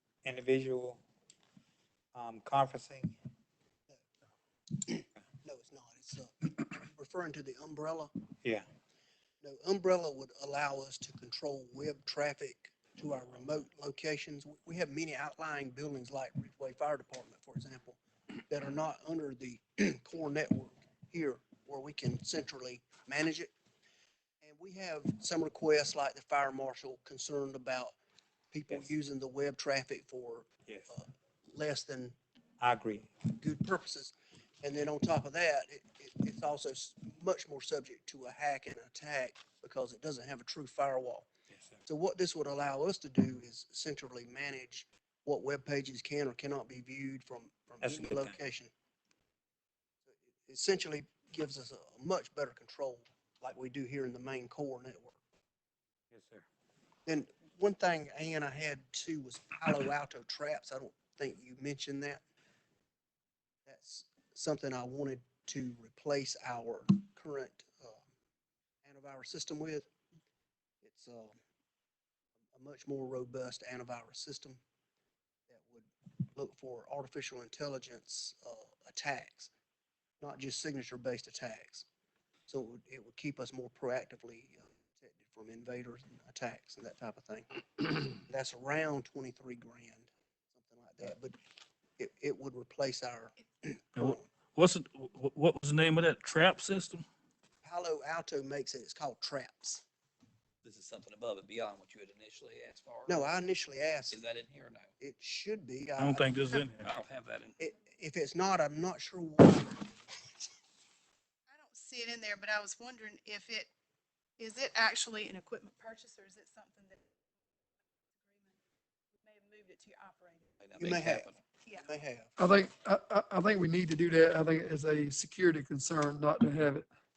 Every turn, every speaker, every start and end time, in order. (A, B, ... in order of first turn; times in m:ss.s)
0:00.2-0:01.0 A
0:02.1-0:03.1 A
0:04.8-0:08.1 B
0:09.4-0:23.5 B
0:24.4-0:27.9 B
0:28.5-0:32.1 B
0:32.6-0:33.1 A
0:33.4-0:41.3 B
0:41.8-0:48.7 B
0:47.8-0:48.4 A
0:50.0-0:55.2 B
0:56.1-0:56.4 A
0:57.0-1:02.2 B
1:03.6-1:08.0 B
1:08.8-1:09.9 B
1:10.8-1:11.3 B
1:12.5-1:14.6 B
1:15.5-1:19.5 B
1:20.2-1:21.9 B
1:22.5-1:31.4 B
1:32.0-1:34.2 B
1:34.0-1:37.0 C
1:37.6-1:39.8 B
1:40.6-1:43.3 D
1:43.0-1:44.2 B
1:44.1-1:44.9 D
1:45.0-1:46.4 B
1:46.0-1:46.9 C
1:46.8-1:47.6 D
1:47.6-1:49.8 B
1:51.5-1:53.7 E
1:54.4-1:57.0 E
1:58.2-1:58.6 E
1:59.2-2:00.5 E
2:00.6-2:01.4 D
2:00.8-2:02.3 B
2:02.4-2:06.9 F